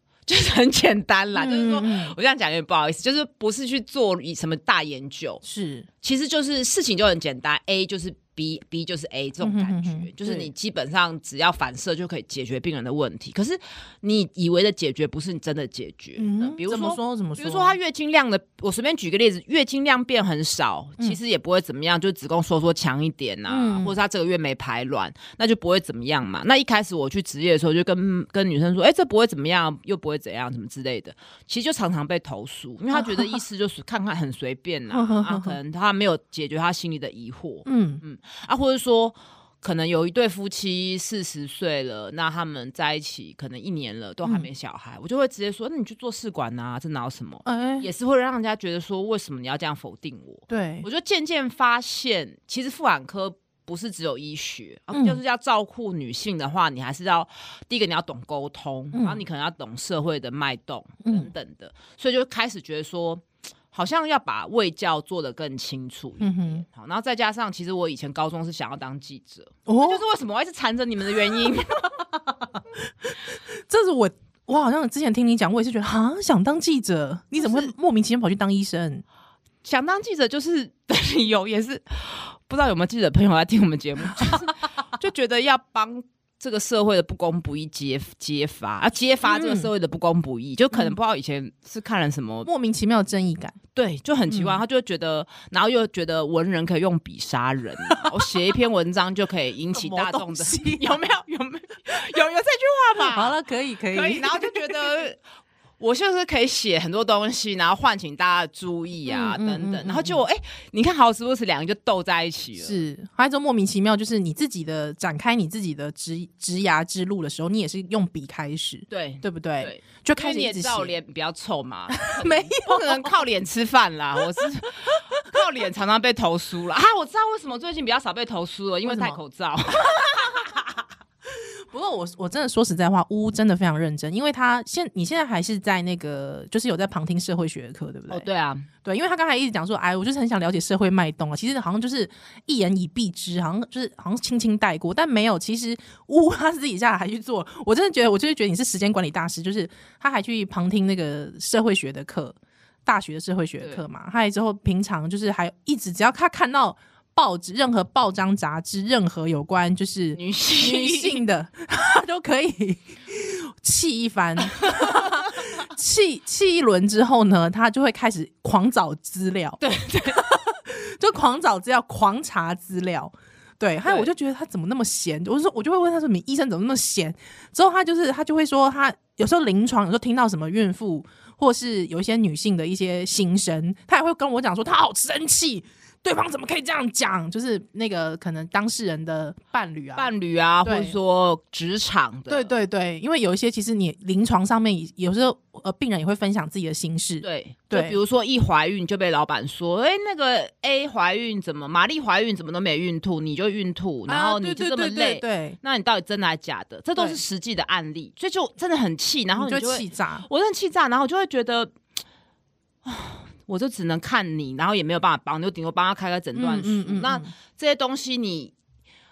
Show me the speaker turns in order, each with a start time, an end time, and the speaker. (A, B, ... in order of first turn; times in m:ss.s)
0:00.3-0:05.4 A
0:01.3-0:02.1 B
0:05.4-0:05.9 B
0:06.0-1:12.0 A
0:09.4-0:10.5 B
0:16.2-0:17.8 B
0:23.5-0:23.9 B
0:32.9-0:33.4 B
0:34.9-0:35.6 B
0:37.6-0:38.0 B
0:47.4-0:47.9 B
0:50.5-0:50.8 B
0:54.9-0:55.2 B
0:58.9-0:59.2 B
1:01.0-1:01.3 B
1:06.2-1:06.6 B
1:09.7-1:10.0 B
1:12.1-1:19.0 B
1:17.4-1:17.7 A
1:19.6-1:32.5 A
1:29.2-1:29.7 B
1:32.4-1:33.6 B
1:33.7-1:43.4 A
1:34.3-1:34.6 B
1:39.7-1:41.0 B
1:43.1-1:44.8 B
1:43.9-1:45.2 A
1:45.8-1:52.8 A
1:49.0-1:50.2 B
1:52.6-2:00.9 B
1:58.9-2:10.4 A
2:02.0-2:03.1 B
2:08.8-2:09.2 B
2:10.0-2:18.3 B
2:18.1-2:18.7 A
2:18.8-3:10.1 B
2:40.2-2:41.2 A
2:44.6-2:45.2 A
2:49.6-2:50.2 A
3:09.9-3:12.5 A
3:10.6-3:11.0 B
3:12.3-3:18.0 B
3:17.2-3:31.7 A
3:24.1-3:25.6 B
3:29.4-3:30.2 B
3:32.8-3:38.5 A
3:36.3-3:37.3 B